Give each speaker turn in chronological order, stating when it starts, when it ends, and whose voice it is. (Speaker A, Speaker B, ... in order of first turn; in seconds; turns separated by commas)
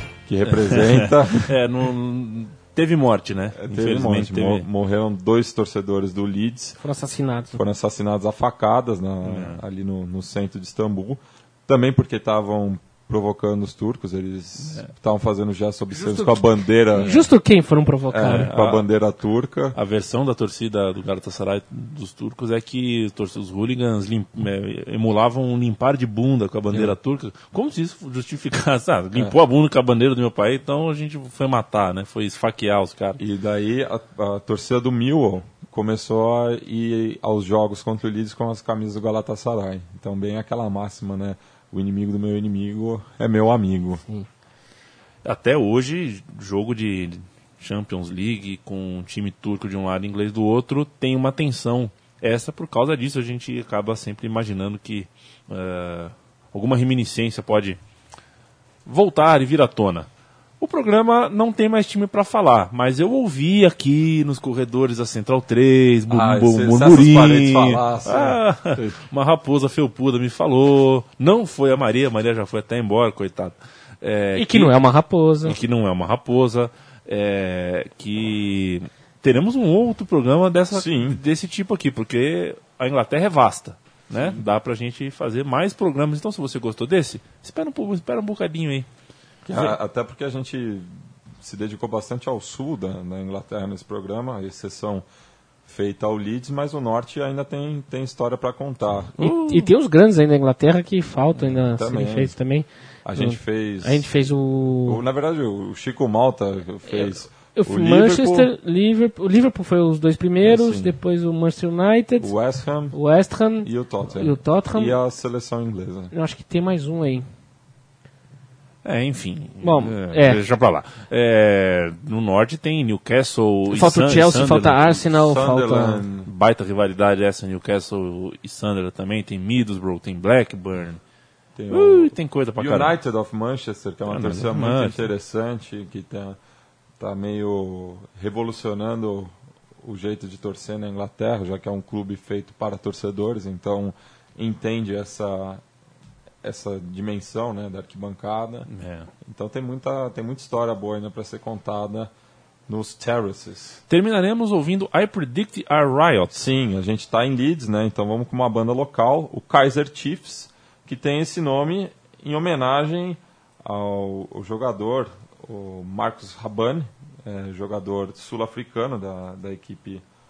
Speaker A: 0.3-1.6, Speaker B: 0.5-4.7, Speaker A: 3.5-6.8, Speaker C: 6.8-7.6, Speaker A: 7.5-17.3, Speaker B: 9.2-9.6, Speaker C: 16.9-18.5, Speaker A: 18.1-19.8, Speaker B: 18.2-18.8, Speaker B: 19.7-33.2, Speaker A: 26.7-26.9, Speaker A: 33.2-44.0, Speaker B: 45.2-57.8, Speaker B: 58.9-60.1, Speaker B: 60.6-74.7, Speaker A: 66.1-69.0, Speaker C: 74.3-75.6, Speaker B: 75.4-88.9, Speaker A: 80.7-81.2, Speaker A: 84.1-84.4, Speaker A: 89.5-95.0, Speaker B: 89.5-89.8, Speaker A: 95.7-99.2, Speaker B: 99.2-99.7, Speaker C: 99.2-105.0, Speaker A: 101.3-102.3, Speaker A: 103.0-108.5, Speaker C: 106.9-112.3, Speaker A: 110.4-111.0, Speaker A: 112.2-113.0, Speaker C: 112.9-115.0, Speaker A: 113.6-116.1, Speaker C: 116.1-117.3, Speaker B: 118.8-125.0, Speaker C: 119.6-120.4, Speaker C: 123.7-126.0, Speaker A: 125.1-126.3, Speaker B: 126.2-131.0, Speaker A: 131.6-136.4, Speaker B: 131.7-132.9, Speaker B: 134.1-135.1, Speaker A: 137.0-145.6, Speaker A: 146.4-148.7, Speaker B: 148.7-149.1, Speaker A: 149.2-152.1, Speaker A: 152.7-153.8, Speaker B: 153.9-156.4, Speaker A: 156.3-170.0